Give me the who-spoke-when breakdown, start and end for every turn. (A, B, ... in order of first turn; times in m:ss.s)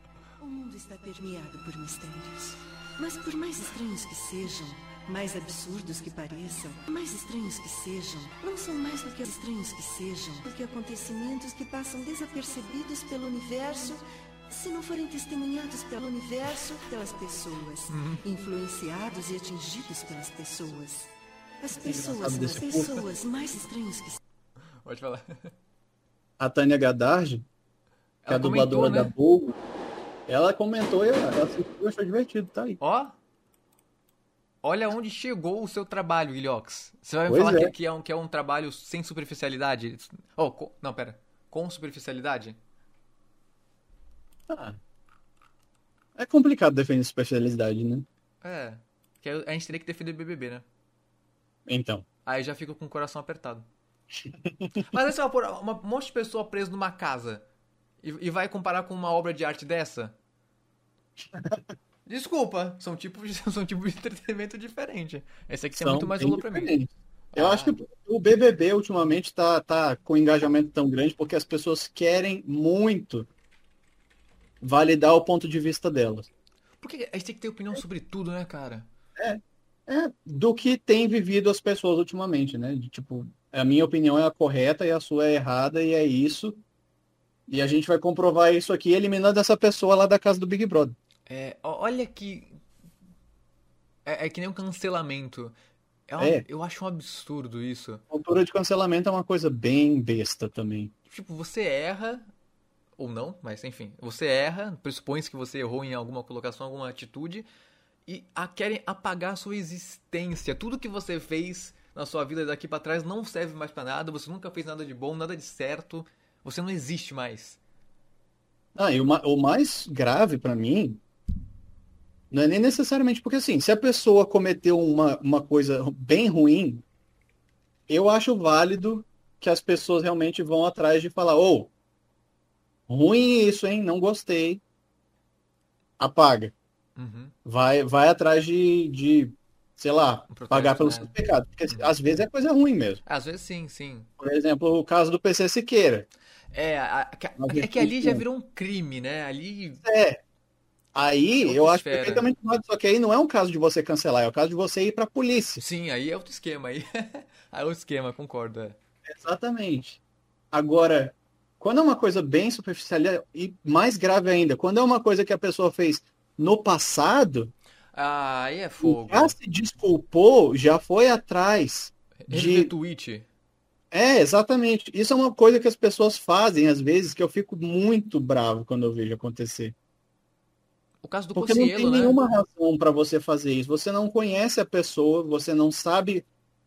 0:00.4-0:24.2 A
0:17.9-0:18.2 B
0:21.8-0:23.0 C
0:24.8-0:25.5 B
0:26.4-0:27.4 C
0:28.2-0:29.1 B
0:28.3-0:29.6 C
0:30.3-0:32.8 C
0:32.8-0:33.1 B
0:34.6-0:42.6 B
0:37.3-0:37.7 C
0:44.5-0:44.8 C
0:46.2-0:48.0 C
0:48.4-0:50.6 B
0:51.7-0:52.0 C
0:52.2-0:53.7 B
0:54.4-0:54.8 C
0:54.8-0:57.4 B
0:58.0-1:00.2 B
1:01.3-1:01.6 C
1:02.0-1:06.7 B
1:05.7-1:13.3 C
1:07.3-1:07.8 B
1:14.6-1:16.3 C
1:16.8-1:18.9 B
1:19.2-1:26.6 C
1:27.5-1:31.0 C
1:31.3-1:32.6 B
1:34.0-1:35.5 B
1:36.1-1:38.0 B
1:36.2-1:36.4 C
1:38.1-1:40.9 C
1:41.1-1:42.3 B
1:43.0-1:47.5 B
1:48.1-1:57.6 B
1:58.8-2:01.0 C
2:02.3-2:06.8 C
2:07.9-2:11.7 C
2:12.9-2:14.6 C
2:16.0-2:16.5 C
2:17.0-2:17.3 B
2:17.4-2:23.0 C
2:20.3-2:21.1 B
2:21.7-2:21.9 B
2:23.0-2:24.1 B
2:24.2-2:26.1 C
2:26.5-2:29.8 B
2:27.4-2:28.2 C
2:29.8-2:30.2 C
2:30.9-2:35.6 C
2:31.4-2:32.3 B
2:35.6-2:38.8 B
2:39.0-2:40.0 C
2:40.5-2:47.5 C
2:47.9-2:49.4 B
2:48.8-2:52.7 C
2:52.3-2:53.2 B
2:53.9-2:59.7 C
3:01.0-3:02.2 B
3:01.3-3:06.2 C